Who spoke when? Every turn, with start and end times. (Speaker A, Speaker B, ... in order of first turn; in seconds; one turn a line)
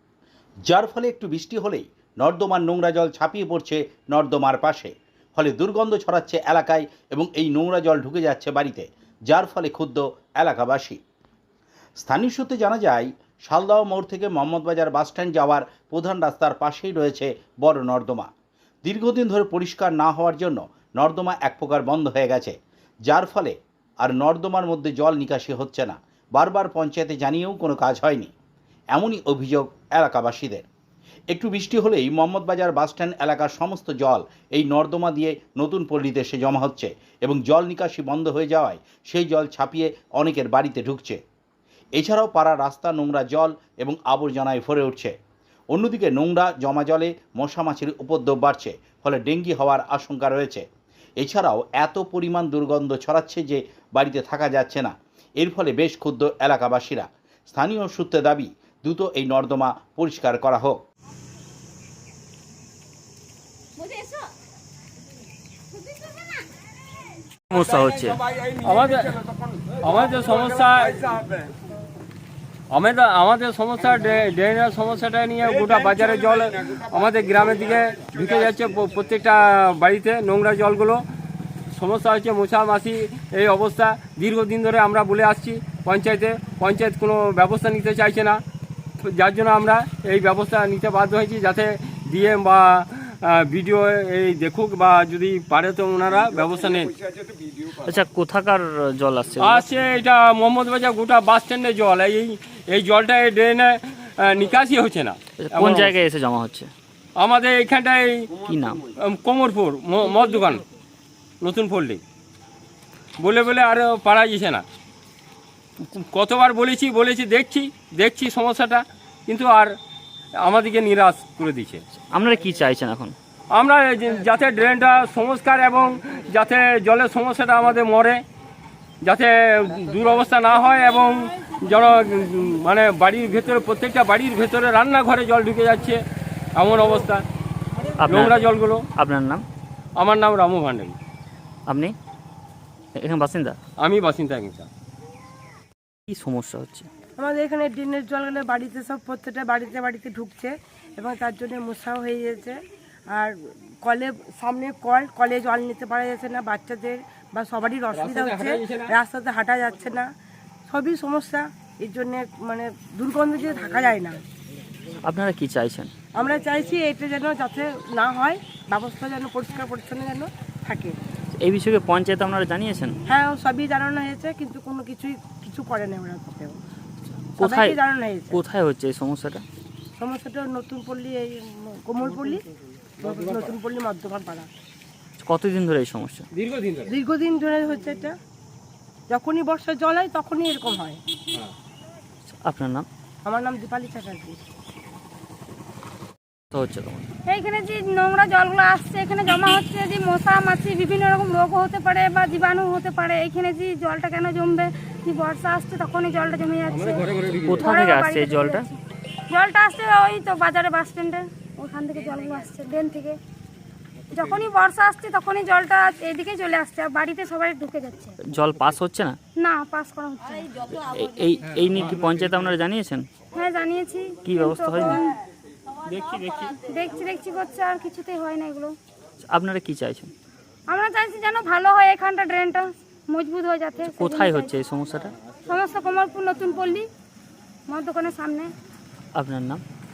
Speaker A: 0.7-11.0
Speaker A: 12.0-18.3
Speaker A: 18.8-28.3
Speaker A: 28.9-30.6
Speaker A: 31.3-41.2
Speaker A: 42.0-45.1
Speaker A: 45.7-50.6
Speaker A: 51.2-60.8
Speaker B: 67.5-68.2
Speaker C: 68.6-69.2
Speaker C: 69.8-71.2
Speaker C: 72.7-81.0
Speaker C: 81.7-88.4
Speaker C: 89.0-97.0
Speaker B: 97.8-99.8
Speaker C: 99.4-106.0
Speaker B: 105.4-106.7
Speaker C: 107.2-108.4
Speaker B: 108.5-108.8
Speaker C: 108.9-110.6
Speaker C: 111.4-112.0
Speaker C: 113.2-114.6
Speaker C: 115.9-119.7
Speaker C: 120.4-121.8
Speaker B: 122.0-123.1
Speaker C: 123.5-128.2
Speaker C: 129.0-136.0
Speaker C: 136.6-137.2
Speaker B: 138.0-138.4
Speaker C: 138.1-138.9
Speaker B: 139.0-139.4
Speaker C: 140.0-141.0
Speaker B: 141.7-141.9
Speaker B: 143.0-143.6
Speaker C: 143.8-144.7
Speaker B: 146.1-146.9
Speaker D: 147.2-152.6
Speaker D: 153.1-160.1
Speaker C: 157.9-158.9
Speaker D: 160.7-164.2
Speaker B: 165.1-165.9
Speaker D: 166.2-171.0
Speaker B: 171.3-173.0
Speaker D: 173.1-176.6
Speaker B: 177.3-177.8
Speaker D: 177.4-178.4
Speaker B: 178.3-179.4
Speaker D: 180.0-182.4
Speaker D: 183.0-184.5
Speaker C: 183.0-183.5
Speaker B: 185.2-186.3
Speaker C: 186.3-186.9
Speaker D: 186.9-188.2
Speaker D: 189.1-191.0
Speaker B: 192.3-192.9
Speaker D: 193.2-194.4
Speaker B: 196.5-197.1
Speaker E: 197.3-207.0
Speaker C: 206.7-207.7
Speaker B: 207.5-208.7
Speaker E: 207.7-208.7
Speaker E: 209.3-213.2
Speaker E: 214.1-218.2
Speaker B: 218.2-219.2
Speaker E: 219.4-220.6
Speaker B: 220.7-223.1
Speaker E: 223.3-225.1
Speaker B: 224.2-225.0
Speaker C: 225.9-226.5
Speaker E: 226.7-228.7
Speaker B: 229.3-230.1
Speaker E: 230.7-234.4
Speaker B: 233.8-235.1
Speaker E: 235.5-236.9
Speaker E: 237.7-238.5
Speaker B: 239.2-239.6